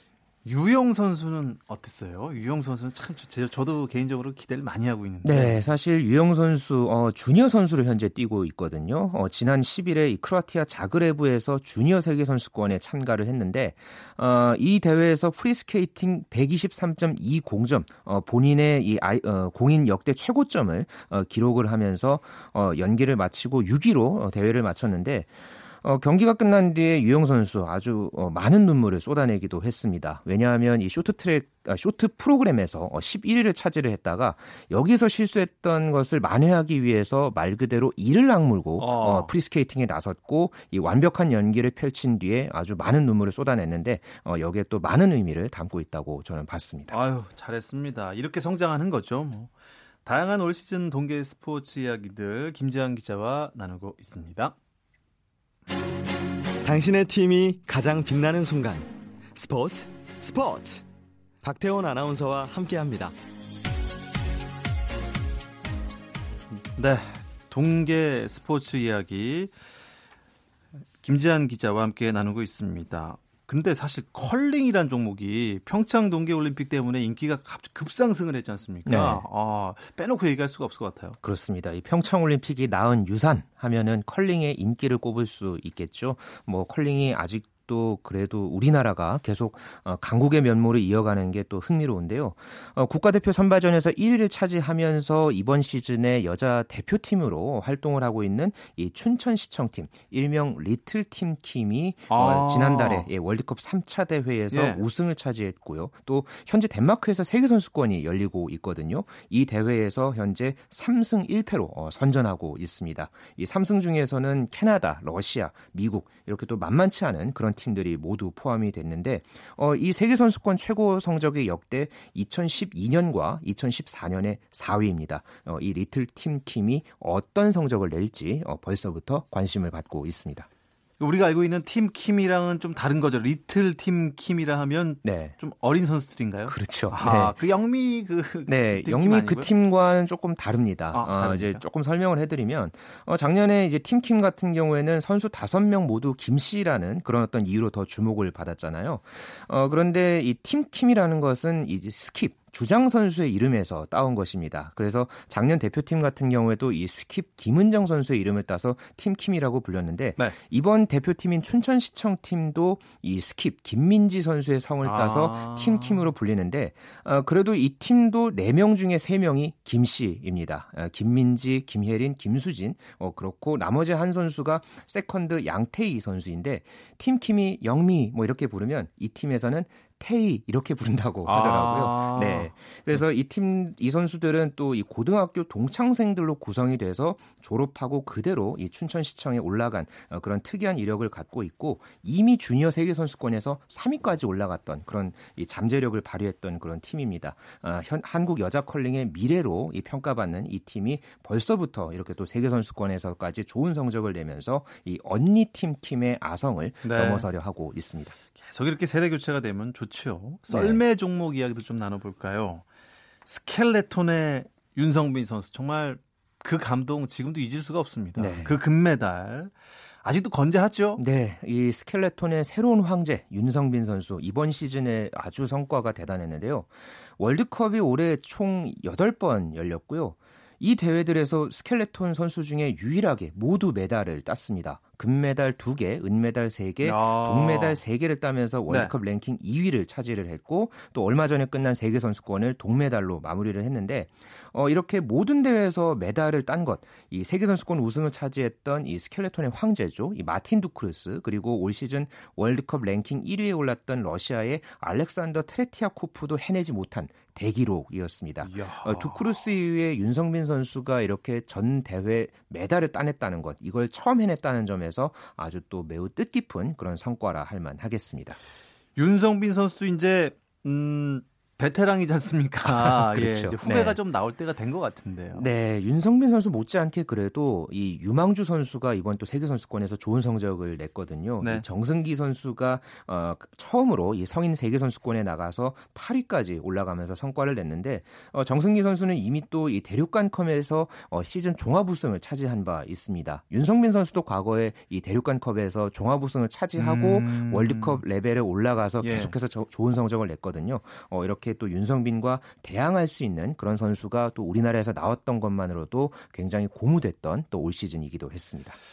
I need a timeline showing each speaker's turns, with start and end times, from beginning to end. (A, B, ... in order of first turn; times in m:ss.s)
0:00.4-0:05.7 A
0:05.2-0:46.9 B
0:38.8-0:39.3 A
0:46.9-0:49.5 A
0:50.0-0:54.6 A
0:56.6-1:00.8 C
1:01.4-1:03.1 C
1:06.8-1:09.5 A
1:11.0-1:21.2 A
1:18.8-1:19.2 B
1:21.2-2:10.5 B
1:42.1-1:43.1 A
1:44.5-1:44.8 A
2:11.0-2:19.5 A
2:15.0-2:15.4 B
2:16.4-2:17.3 B
2:18.5-3:28.2 B
2:20.9-2:21.6 A
2:44.8-2:46.0 A
3:01.2-3:02.5 A
3:26.8-3:27.3 A
3:28.4-3:32.6 A
3:30.5-3:30.8 B
3:33.2-3:41.0 A
3:38.2-3:38.6 B
3:41.0-4:28.4 B
3:56.8-3:57.8 A
3:58.7-3:58.9 A
4:18.4-4:19.3 A
4:29.0-4:35.5 A
4:32.6-4:34.0 B
4:35.3-5:08.8 B
4:41.4-4:41.6 A
4:56.8-4:58.0 A
4:59.0-4:59.3 A